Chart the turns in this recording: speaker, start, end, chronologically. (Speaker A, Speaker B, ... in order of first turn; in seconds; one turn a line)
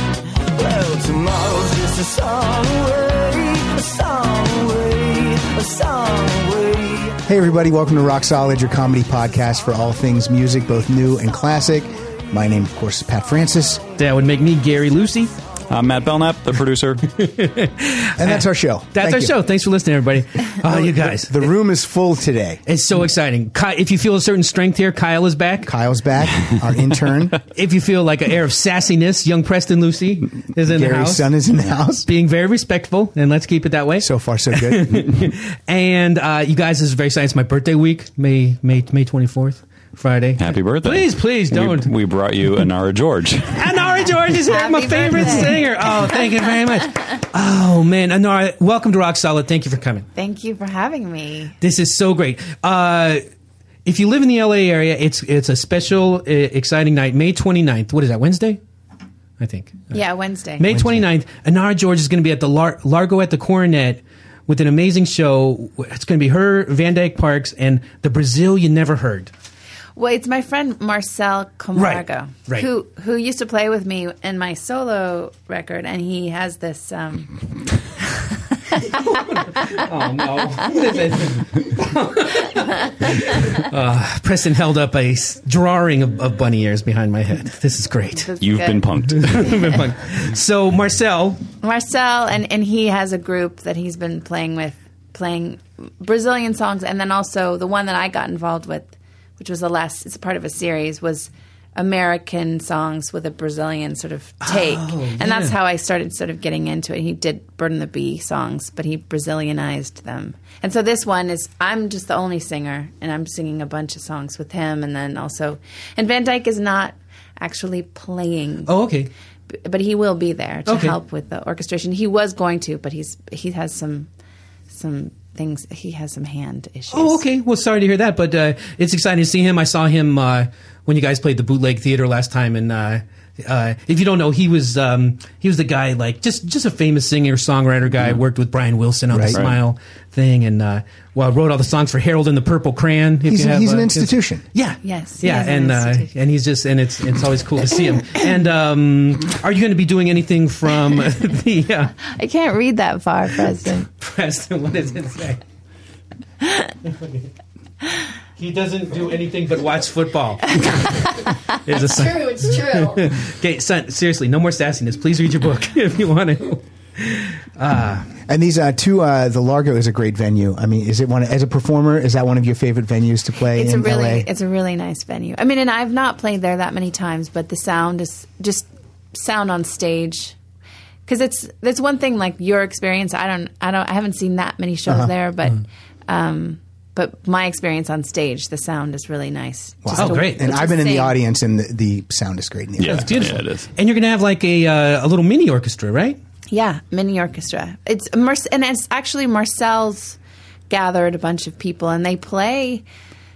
Speaker A: 0.6-7.2
Speaker B: 7.2-13.8
Speaker C: 14.0-15.3
Speaker D: 15.7-17.1
Speaker C: 17.1-21.5
Speaker B: 18.2-19.4
Speaker B: 20.6-22.6
Speaker C: 22.7-25.7
Speaker B: 25.6-27.4
Speaker C: 27.5-31.3
Speaker B: 30.6-32.1
Speaker C: 32.0-41.9
Speaker B: 34.0-35.1
Speaker D: 40.4-43.6
Speaker C: 43.5-50.1
Speaker E: 44.5-46.1
Speaker E: 50.1-51.5
Speaker C: 51.6-53.2
Speaker C: 53.9-58.6
Speaker C: 59.4-60.0
Speaker E: 59.9-60.6
Speaker C: 60.6-69.3
Speaker B: 60.7-61.0
Speaker E: 70.0-77.3
Speaker C: 71.8-72.7
Speaker C: 78.9-88.3
Speaker E: 88.1-89.5
Speaker D: 88.4-89.8
Speaker C: 89.1-91.4
Speaker E: 91.6-118.7
Speaker C: 104.4-105.6
Speaker C: 118.7-119.1
Speaker E: 119.5-124.1
Speaker C: 120.7-121.0
Speaker E: 124.7-127.2
Speaker C: 126.9-151.9
Speaker B: 139.1-139.4
Speaker D: 139.3-139.6
Speaker B: 143.3-144.4
Speaker E: 144.8-146.1
Speaker E: 152.0-153.9
Speaker C: 154.0-155.4
Speaker C: 156.8-157.3
Speaker C: 158.4-168.1
Speaker B: 168.2-174.3
Speaker E: 173.4-180.3
Speaker E: 181.1-191.2
Speaker B: 184.9-185.1
Speaker B: 189.8-193.2
Speaker C: 189.9-190.5
Speaker D: 192.8-193.7
Speaker C: 192.8-196.2
Speaker E: 196.5-200.2
Speaker E: 200.7-202.8